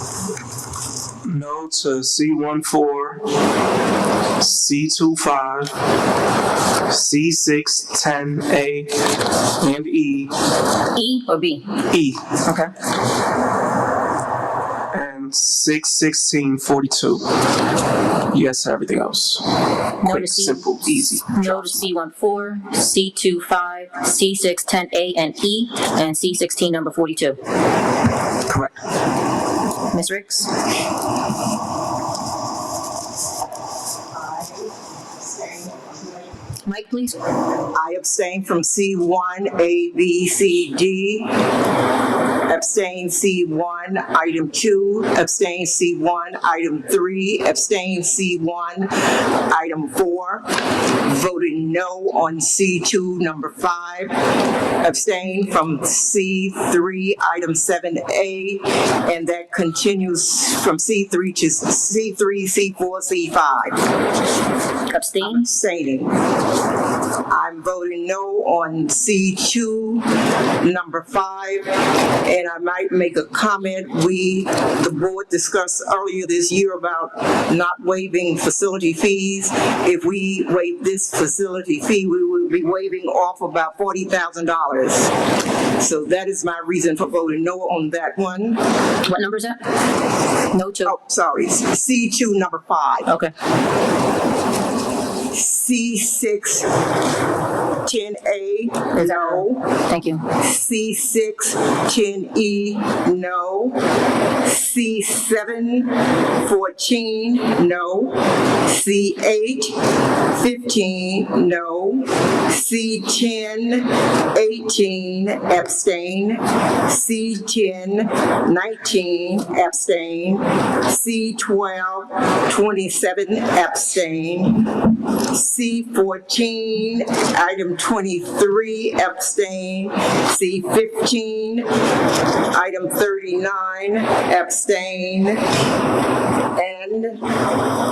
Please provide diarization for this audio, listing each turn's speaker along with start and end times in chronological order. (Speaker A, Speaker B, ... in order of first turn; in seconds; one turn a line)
Speaker A: 1.2-3.2
Speaker A: 4.4-5.7
Speaker A: 6.9-10.3
Speaker B: 10.9-11.8
Speaker A: 11.9-12.4
Speaker B: 12.4-12.7
Speaker A: 14.9-17.3
Speaker A: 18.3-19.5
Speaker A: 20.0-21.8
Speaker B: 20.0-20.6
Speaker B: 21.3-27.4
Speaker A: 28.5-28.7
Speaker B: 29.9-30.5
Speaker C: 34.1-36.3
Speaker B: 36.6-37.2
Speaker C: 37.7-41.5
Speaker C: 42.5-54.2
Speaker C: 54.8-63.8
Speaker B: 64.9-65.4
Speaker C: 65.2-66.2
Speaker C: 67.3-85.1
Speaker C: 85.8-88.6
Speaker B: 89.0-89.6
Speaker B: 90.4-91.0
Speaker C: 90.9-93.1
Speaker B: 93.1-93.3
Speaker C: 95.3-96.7
Speaker C: 97.8-99.7
Speaker B: 98.9-100.3
Speaker C: 100.3-103.8
Speaker C: 104.4-131.7
Speaker C: 132.5-135.4
Speaker C: 136.6-137.3